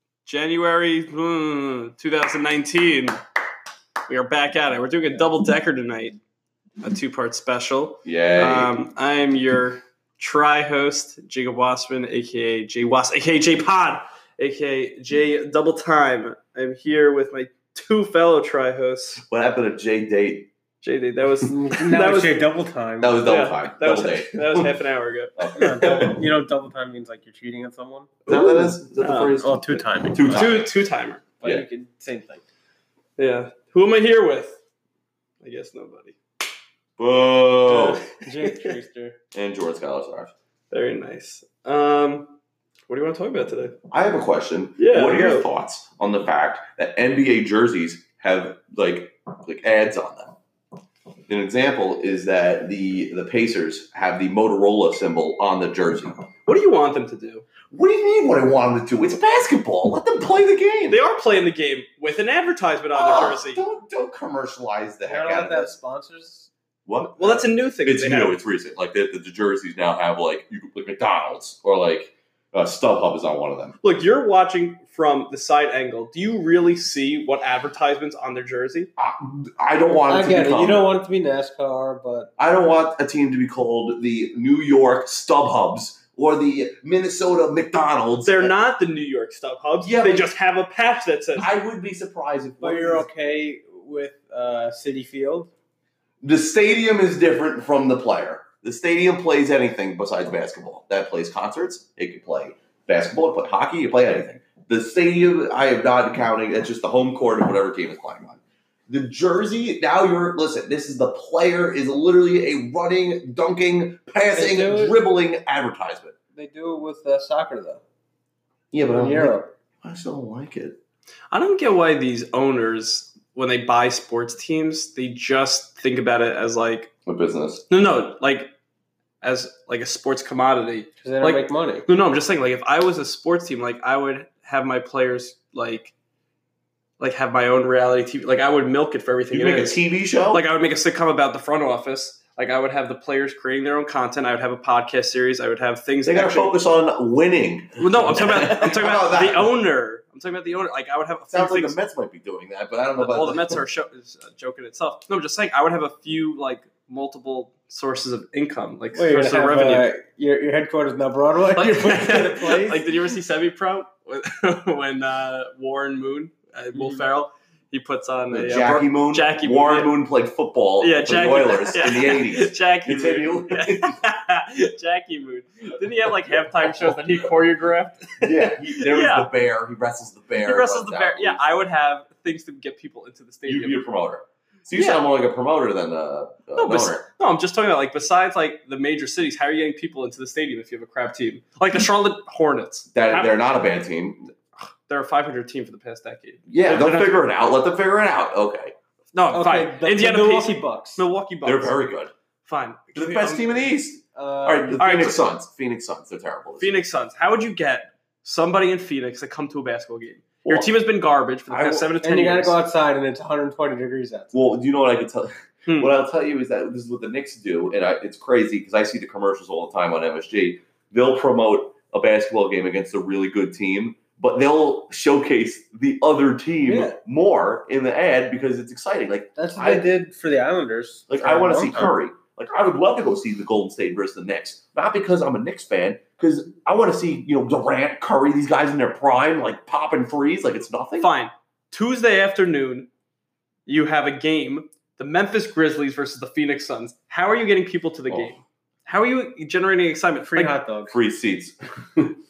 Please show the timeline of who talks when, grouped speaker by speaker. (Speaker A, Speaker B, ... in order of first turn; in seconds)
Speaker A: 0.2-3.2, 4.1-6.2, 6.8-19.2, 20.8-22.4, 23.2-26.1, 29.0-29.4, 30.3-31.2, 33.2-34.6, 35.4-36.2, 37.7-38.7, 40.7-42.4, 42.9-43.8, 44.8-45.5, 56.5-57.5, 60.9-63.6, 67.2-68.4, 73.8-78.9, 88.2-91.5, 121.3-126.9, 127.7-128.5, 129.2-135.9, 137.0-139.8, 140.3-146.6, 147.8-151.8, 153.0-159.9, 161.5-169.9, 170.8-179.3, 180.4-183.9, 184.7-185.0, 186.6-193.3, 194.9-197.2, 199.1-201.8, 202.4-203.7, 204.8-205.2, 206.6-212.6, 215.7-215.9, 226.7-227.0, 241.0-242.9, 243.7-250.6
Speaker B: 8.1-8.8, 19.2-20.5, 23.0-24.8, 25.4-26.2, 28.3-30.7, 37.0-38.0, 39.3-40.3, 43.9-50.4, 51.3-56.2, 57.7-61.0, 62.9-65.7, 66.9-73.8, 79.0-80.9, 82.4-88.5, 89.8-90.3, 91.4-93.1, 96.2-116.2, 118.7-120.8, 127.1-127.6, 139.3-140.4, 146.1-149.5, 151.3-153.6, 168.3-174.0, 178.2-181.4, 183.5-187.0, 192.9-194.3, 196.5-198.7, 201.4-202.1, 202.9-206.8, 210.4-210.7, 211.5-211.9, 214.3-229.9, 231.1-241.1, 248.1-248.3, 250.9-252.1
Speaker C: 21.5-23.2, 25.6-28.8, 29.4-30.6, 31.4-32.4, 38.2-39.2, 65.1-66.5, 80.1-82.3, 92.6-95.5, 114.2-115.0, 116.3-117.8, 118.9-119.5, 131.0-131.9, 158.9-162.9, 166.8-167.0, 199.3-201.0, 204.2-204.8, 212.0-214.4, 229.4-231.9, 250.2-251.0